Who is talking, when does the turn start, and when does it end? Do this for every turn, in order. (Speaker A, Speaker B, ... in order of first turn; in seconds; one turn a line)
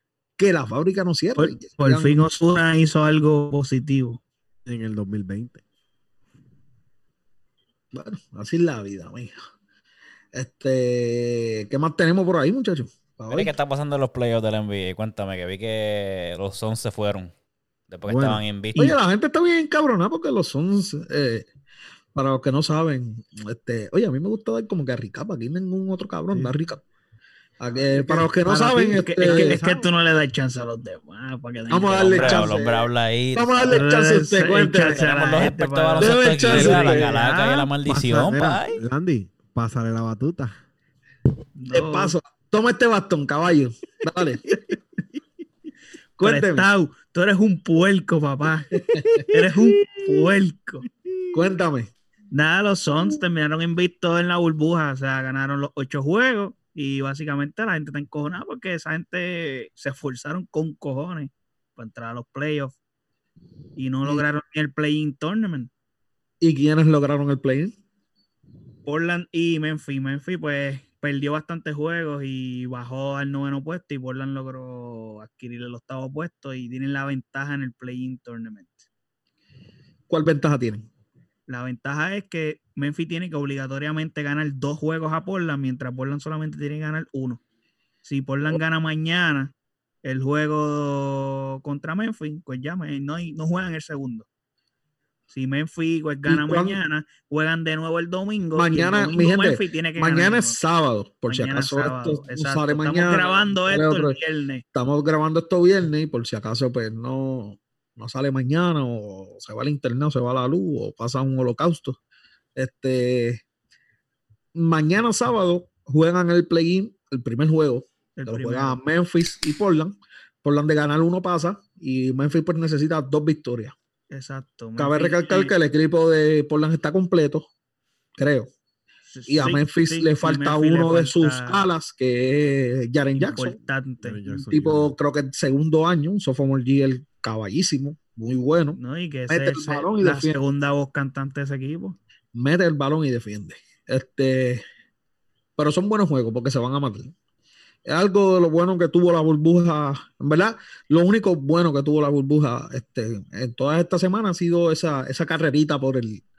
Speaker A: 0.4-2.2
Speaker B: 1.4-4.2
Speaker C: 4.7-5.6
Speaker A: 7.9-9.4
Speaker A: 10.3-13.5
Speaker D: 13.3-17.3
Speaker D: 17.9-18.9
Speaker C: 18.1-18.4
Speaker A: 18.8-21.4
Speaker A: 22.1-26.8
Speaker A: 27.6-29.6
Speaker C: 27.8-29.9
Speaker B: 28.7-32.5
Speaker A: 31.7-35.0
Speaker D: 32.1-33.9
Speaker B: 33.7-37.7
Speaker D: 34.9-38.8
Speaker A: 36.0-37.1
Speaker C: 37.9-40.5
Speaker B: 41.6-42.2
Speaker A: 41.7-44.5
Speaker A: 46.2-46.7
Speaker B: 46.2-50.9
Speaker A: 48.9-49.3
Speaker A: 51.3-51.9
Speaker B: 52.3-62.8
Speaker B: 63.8-65.7
Speaker A: 66.4-67.7
Speaker B: 68.9-78.9
Speaker A: 80.1-80.9
Speaker B: 81.5-87.4
Speaker B: 88.0-89.5
Speaker B: 90.0-94.3
Speaker B: 95.3-100.6
Speaker A: 96.3-96.8
Speaker A: 98.5-104.2
Speaker B: 101.3-104.6
Speaker A: 104.7-112.0
Speaker A: 112.6-113.4
Speaker A: 114.6-123.7
Speaker B: 118.2-118.8
Speaker B: 124.1-125.5
Speaker A: 124.8-127.5
Speaker A: 128.2-128.5
Speaker B: 129.1-131.7
Speaker A: 129.3-133.6
Speaker B: 133.2-134.5
Speaker C: 134.0-134.9
Speaker A: 134.5-138.8
Speaker B: 138.8-141.9
Speaker A: 139.3-140.4
Speaker A: 142.3-144.6
Speaker A: 145.6-147.1
Speaker A: 147.9-156.2